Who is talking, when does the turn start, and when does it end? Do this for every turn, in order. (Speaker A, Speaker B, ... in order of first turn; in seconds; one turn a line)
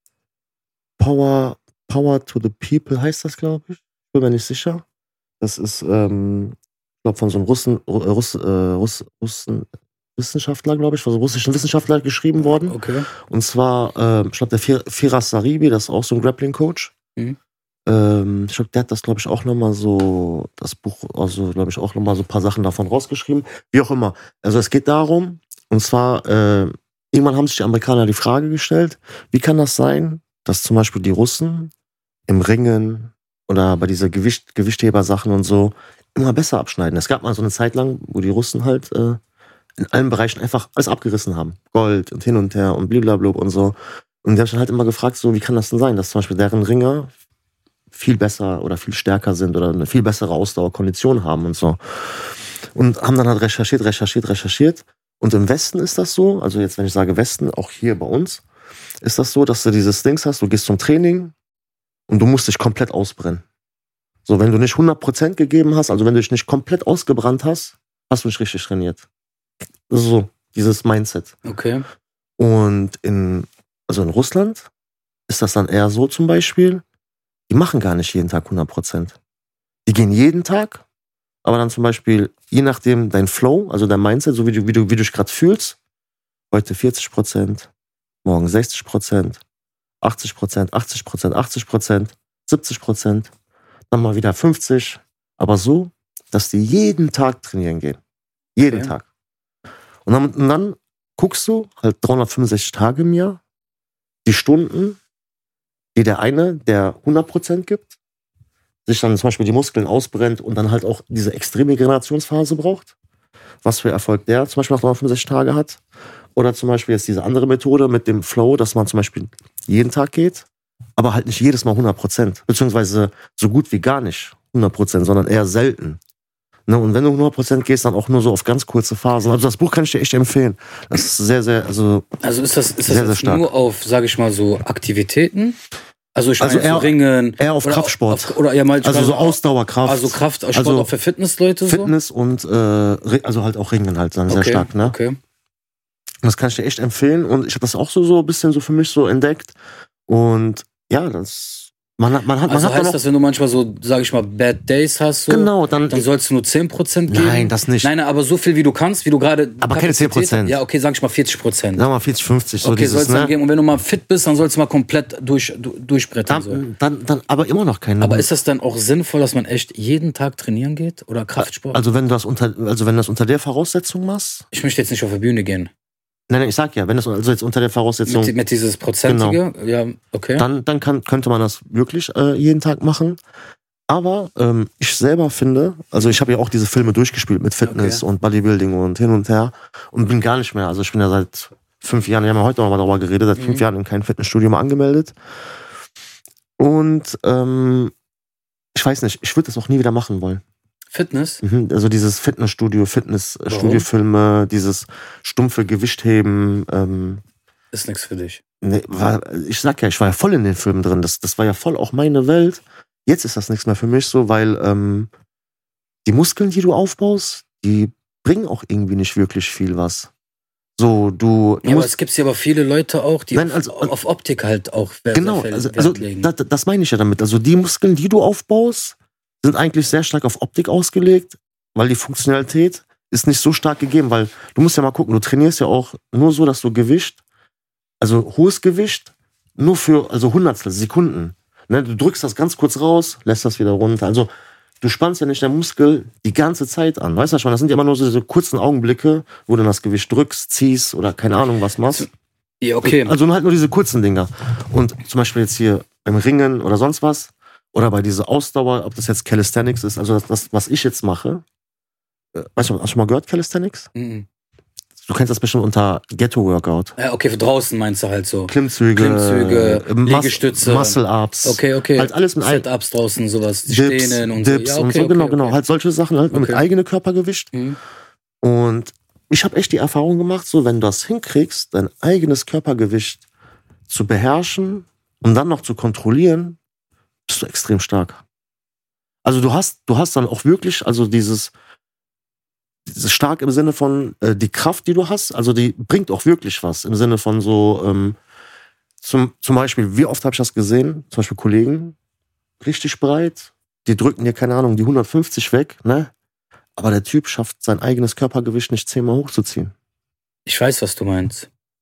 Speaker A: 1.0-4.8
Speaker A: 5.4-16.9
Speaker B: 12.7-13.1
Speaker A: 17.9-31.7
Speaker A: 32.3-39.2
Speaker A: 39.8-47.1
Speaker A: 47.9-58.4
Speaker A: 59.0-61.3
Speaker A: 62.1-63.4
Speaker A: 64.2-69.0
Speaker A: 69.9-71.3
Speaker B: 71.4-71.8
Speaker A: 72.4-74.7
Speaker A: 75.3-76.8
Speaker A: 77.5-79.2
Speaker A: 79.8-80.8
Speaker A: 81.4-85.8
Speaker A: 86.5-87.7
Speaker A: 88.2-89.4
Speaker A: 90.0-93.3
Speaker A: 93.9-98.0
Speaker A: 98.5-99.0
Speaker B: 98.7-98.9
Speaker A: 100.0-103.4
Speaker A: 104.2-105.0
Speaker A: 105.9-107.9
Speaker A: 108.9-112.9
Speaker A: 113.6-115.8
Speaker A: 116.3-120.5
Speaker A: 121.0-126.0
Speaker A: 126.7-132.1
Speaker B: 132.2-135.6
Speaker A: 132.8-133.5
Speaker B: 136.1-141.9
Speaker A: 136.4-140.9
Speaker A: 141.6-144.9
Speaker B: 144.3-145.2
Speaker A: 146.2-149.6
Speaker A: 150.1-153.0
Speaker B: 152.4-161.8
Speaker A: 155.3-156.1
Speaker A: 157.1-157.9
Speaker A: 159.6-160.6
Speaker A: 161.8-163.3
Speaker B: 162.6-166.6
Speaker A: 166.3-168.3
Speaker B: 168.0-171.8
Speaker A: 171.4-174.4
Speaker B: 174.5-175.7
Speaker A: 176.3-178.3
Speaker B: 178.0-180.4
Speaker A: 179.0-179.4
Speaker A: 180.4-183.2
Speaker A: 183.9-195.1
Speaker B: 187.6-188.0
Speaker B: 193.3-193.6
Speaker A: 196.6-197.9
Speaker A: 198.7-200.4
Speaker B: 200.9-201.4
Speaker A: 201.4-207.2
Speaker B: 203.5-203.8
Speaker B: 207.7-208.4
Speaker A: 208.6-215.1
Speaker A: 216.0-220.1
Speaker A: 220.8-221.9
Speaker B: 221.6-226.3
Speaker A: 223.3-223.9
Speaker A: 225.1-237.2
Speaker A: 238.0-244.3
Speaker A: 244.8-252.1
Speaker B: 252.6-253.1
Speaker A: 252.8-261.4
Speaker A: 262.3-263.9
Speaker B: 263.9-264.2
Speaker A: 265.0-266.9
Speaker B: 267.0-275.6
Speaker A: 268.5-272.6
Speaker A: 273.7-277.5
Speaker B: 276.3-276.6
Speaker B: 277.5-277.8
Speaker A: 278.4-283.2
Speaker A: 283.9-286.6
Speaker A: 287.3-288.2
Speaker A: 289.2-291.5
Speaker A: 292.9-298.1
Speaker A: 299.0-301.9
Speaker A: 302.6-306.1
Speaker A: 306.8-309.7
Speaker B: 310.4-311.5